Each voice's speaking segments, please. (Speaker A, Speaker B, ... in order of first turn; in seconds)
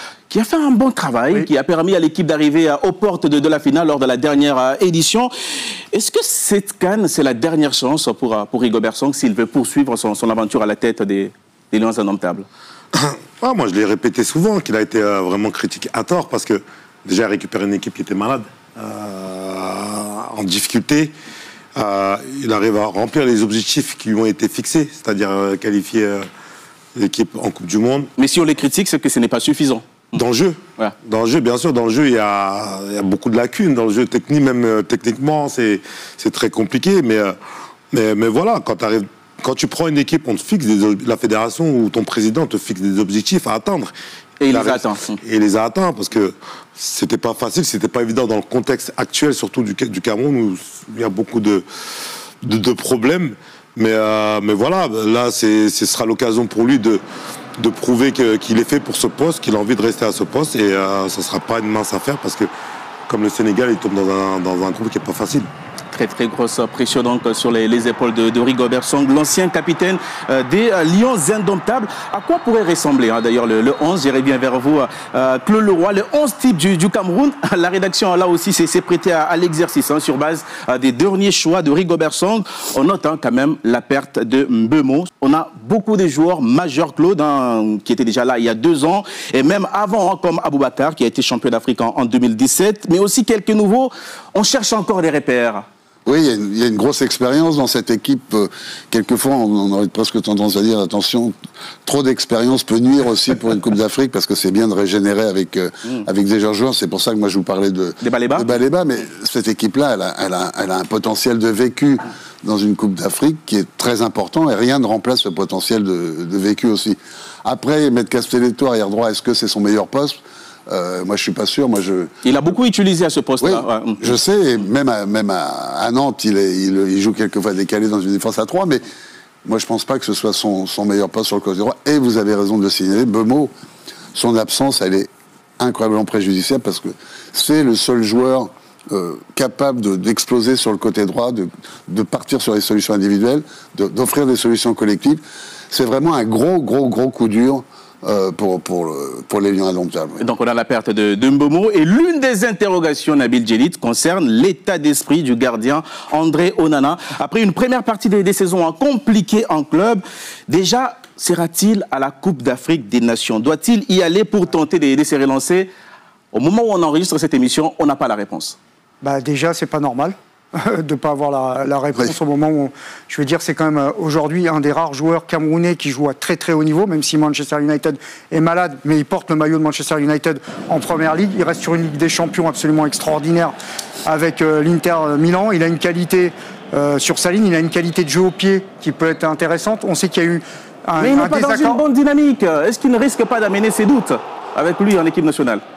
Speaker A: 0.3-5.3, 5.9-12.5, 28.2-30.1, 44.4-45.2, 65.9-95.7, 108.0-108.5, 122.2-124.1, 150.2-165.7, 166.3-168.6, 191.0-195.6
Speaker B: 12.9-21.1, 21.7-26.3, 26.9-28.1, 30.1-37.4, 37.9-43.9, 44.5-51.6, 52.4-57.0, 57.6-62.5, 63.1-65.5
Speaker C: 96.0-101.3, 101.8-122.1, 123.4-128.9, 129.4-133.5, 134.1-150.2
Speaker D: 169.0-191.8